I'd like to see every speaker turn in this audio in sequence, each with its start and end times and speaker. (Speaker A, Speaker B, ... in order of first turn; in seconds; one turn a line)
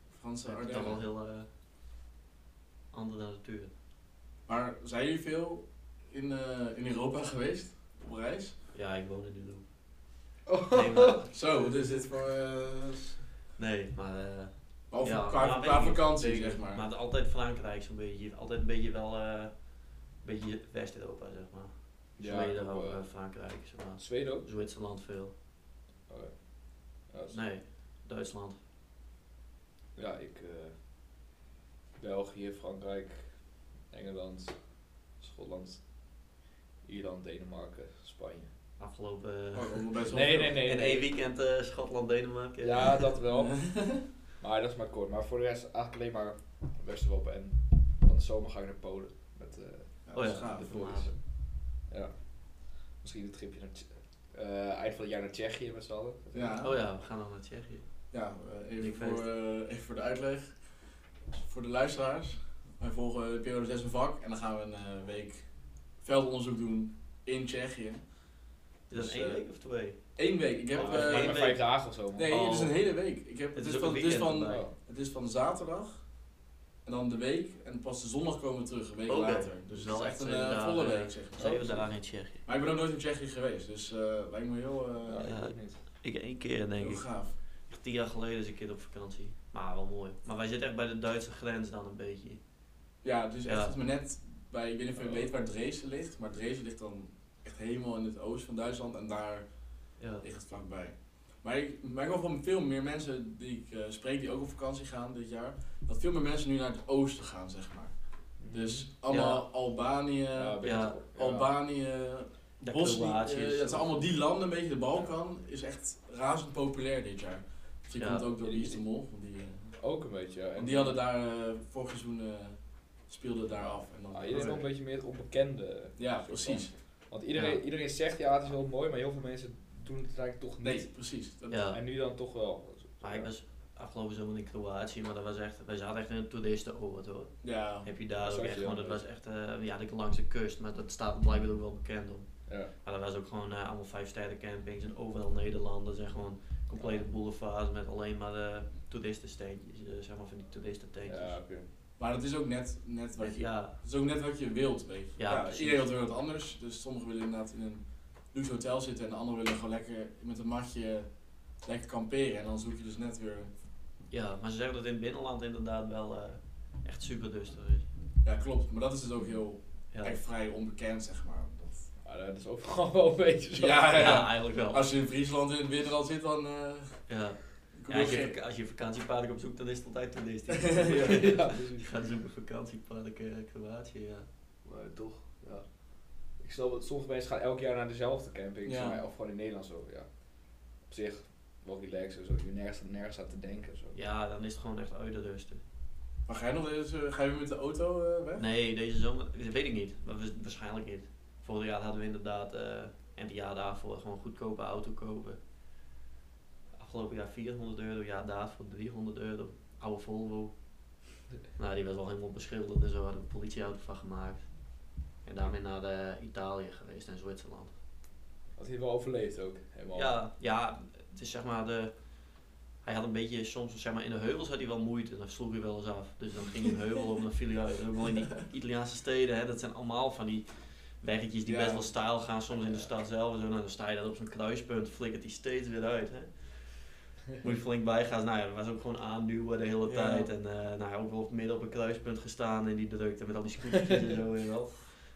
Speaker A: 0.1-1.0
Speaker B: 0.5-1.5
Speaker C: 0.7-1.0
Speaker B: 2.9-3.7
Speaker A: 4.5-8.6
Speaker B: 8.7-9.6
Speaker C: 10.5-11.2
Speaker B: 10.7-11.8
Speaker A: 11.3-13.2
Speaker B: 13.6-25.3
Speaker A: 14.9-16.9
Speaker C: 22.2-23.1
Speaker C: 24.0-24.5
Speaker C: 26.1-27.4
Speaker B: 27.3-28.6
Speaker C: 30.0-30.7
Speaker C: 32.0-36.1
Speaker C: 36.9-38.5
Speaker B: 38.8-43.1
Speaker A: 39.5-40.6
Speaker C: 40.1-41.1
Speaker C: 42.6-50.0
Speaker A: 43.4-44.0
Speaker A: 50.1-51.0
Speaker B: 50.1-51.1
Speaker C: 50.7-51.2
Speaker C: 51.8-56.7
Speaker A: 56.3-56.8
Speaker B: 56.6-57.9
Speaker A: 58.1-60.6
Speaker B: 58.8-59.3
Speaker A: 61.4-65.5
Speaker A: 66.0-68.0
Speaker A: 68.9-69.4
Speaker B: 68.9-70.0
Speaker A: 70.2-71.5
Speaker C: 70.8-72.3
Speaker B: 70.8-71.8
Speaker A: 72.2-76.0
Speaker B: 72.3-72.8
Speaker B: 73.5-74.6
Speaker C: 74.5-74.7
Speaker A: 76.8-81.8
Speaker B: 79.1-82.4
Speaker C: 81.5-81.8
Speaker A: 82.4-85.3
Speaker C: 85.1-85.8
Speaker B: 85.2-87.0
Speaker A: 86.8-87.3
Speaker B: 87.7-92.4
Speaker A: 93.0-99.5
Speaker B: 93.5-93.8
Speaker A: 100.2-107.9
Speaker C: 108.4-108.9
Speaker A: 108.5-110.6
Speaker B: 109.1-109.5
Speaker C: 110.3-111.5
Speaker B: 110.6-111.0
Speaker A: 111.1-119.8
Speaker B: 112.6-114.0
Speaker B: 118.0-118.3
Speaker C: 118.4-118.8
Speaker C: 119.8-121.0
Speaker A: 120.6-124.6
Speaker C: 124.1-130.9
Speaker B: 124.3-124.6
Speaker A: 126.0-126.7
Speaker B: 127.3-127.6
Speaker A: 130.6-131.7
Speaker B: 131.5-131.8
Speaker C: 131.7-133.3
Speaker B: 133.0-151.3
Speaker A: 137.4-137.9
Speaker C: 138.2-139.0
Speaker C: 146.8-147.1
Speaker C: 151.1-151.7
Speaker A: 152.0-161.1
Speaker B: 153.2-153.8
Speaker B: 155.2-155.9
Speaker A: 161.6-163.5
Speaker B: 164.1-167.9
Speaker A: 168.2-171.9
Speaker C: 172.0-174.0
Speaker A: 173.6-177.1
Speaker B: 173.9-174.9
Speaker B: 177.1-184.3
Speaker A: 177.8-178.3
Speaker A: 180.6-181.0
Speaker C: 180.8-182.0
Speaker C: 184.7-194.0
Speaker A: 188.7-189.0
Speaker B: 193.9-195.6
Speaker A: 196.3-198.5
Speaker B: 198.4-205.4
Speaker B: 206.8-210.5
Speaker B: 211.6-214.4
Speaker B: 215.2-217.8
Speaker C: 218.6-220.1
Speaker B: 219.9-221.9
Speaker B: 222.8-236.7
Speaker A: 231.5-231.9
Speaker B: 237.4-244.9
Speaker A: 239.8-240.3